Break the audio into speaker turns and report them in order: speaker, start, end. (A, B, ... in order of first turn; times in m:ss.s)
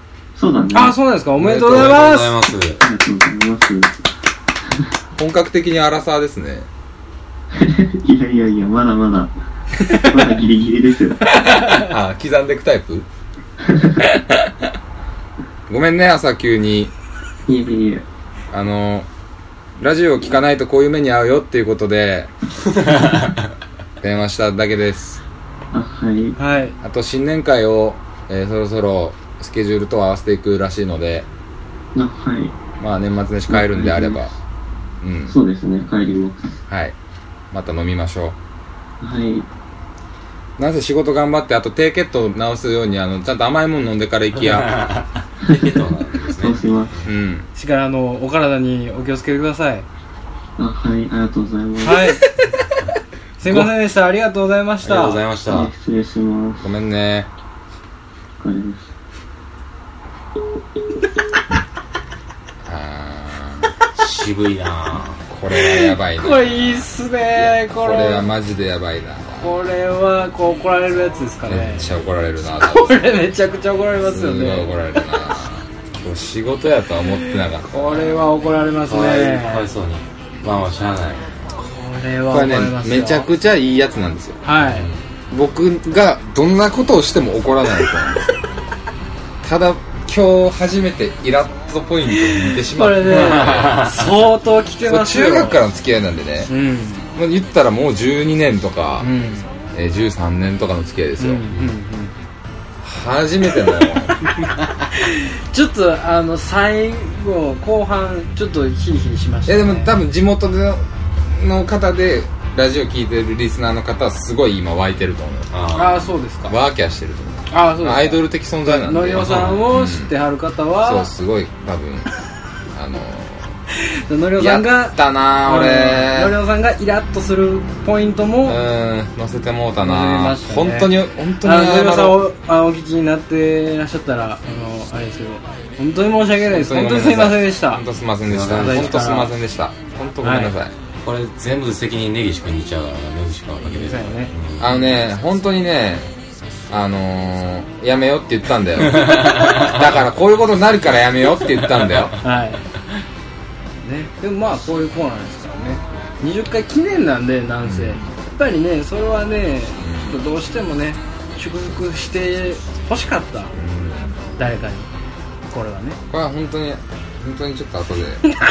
0:00.4-0:01.0 A
0:00.7-0:02.4 B
0:01.4-0:02.8 C
0:02.8-0:04.0 A
0:05.2-0:06.7 D
0:07.6-0:09.3 A
0:09.9-0:11.2 A
0:11.4-0:13.1 D
0:13.6-0:13.9 A
0:14.0-0:14.7 D
0:15.7-0:16.9 D
0:17.5-0:18.0 A
0:18.5-0:19.1 D
0:19.8-0:22.3 D
0:22.9-0:23.2 C
0:24.0-0:25.2 D
0:25.7-0:26.4 A
0:26.4-0:26.8 B
0:26.8-0:31.3 D
0:32.0-0:32.6 A
0:32.8-0:34.3 D
0:33.5-0:34.3 A
0:35.0-0:35.4 D
0:35.3-0:36.6 A
0:36.7-0:37.0 D
0:37.5-0:38.4 D
0:39.0-0:39.5 A
0:40.6-0:44.7 D
0:44.4-0:47.0 C
0:46.3-0:47.0 A
0:47.0-0:47.5 D
0:47.6-0:49.9 B
0:50.6-0:52.2 A
0:51.8-0:52.2 B
0:53.4-0:55.2 B
0:53.4-0:53.7 C
0:54.8-0:55.7 C
0:55.5-0:56.7 A
0:56.6-0:57.3 D
0:58.4-0:58.9 A
1:02.6-1:03.7 D
1:04.0-1:05.2 C
1:05.3-1:09.5 D
1:05.6-1:08.3 B
1:09.4-1:11.9 B
1:11.5-1:13.2 D
1:12.7-1:14.8 B
1:14.0-1:18.3 D
1:17.7-1:19.7 B
1:18.8-1:21.4 C
1:21.6-1:23.3 B
1:22.3-1:24.4 D
1:24.4-1:24.9 B
1:24.6-1:25.0 C
1:25.3-1:28.2 D
1:29.4-1:33.8 D
1:32.4-1:35.6 B
1:33.2-1:34.0 C
1:34.9-1:36.5 D
1:36.5-1:37.1 B
1:37.2-1:39.1 D
1:39.0-1:39.5 B
1:39.7-1:41.7 D
1:41.2-1:42.1 B
1:42.8-1:44.2 D
1:45.0-1:49.9 B
1:49.5-1:55.5 D
1:55.5-1:56.0 C
1:55.7-1:56.6 B
1:56.4-2:00.1 D
1:57.5-2:01.1 B
1:59.1-1:59.7 C
2:00.8-2:02.1 D
2:02.7-2:03.5 D
2:04.1-2:08.6 B
2:04.4-2:06.4 D
2:08.4-2:12.2 D
2:09.8-2:10.9 B
2:11.4-2:17.8 B
2:16.3-2:20.7 D
2:18.3-2:19.0 C
2:18.5-2:19.4 B
2:20.2-2:20.5 B
2:21.0-2:24.7 C
2:23.6-2:24.3 B
2:24.6-2:26.1 D
2:26.7-2:32.2 D
2:29.0-2:29.8 C
2:32.2-2:32.7 B
2:33.8-2:43.6 B
2:37.6-2:38.1 D
2:39.8-2:40.2 D
2:43.6-2:44.2 D
2:44.4-2:44.9 B
2:45.5-2:46.0 B
2:46.1-2:48.2 D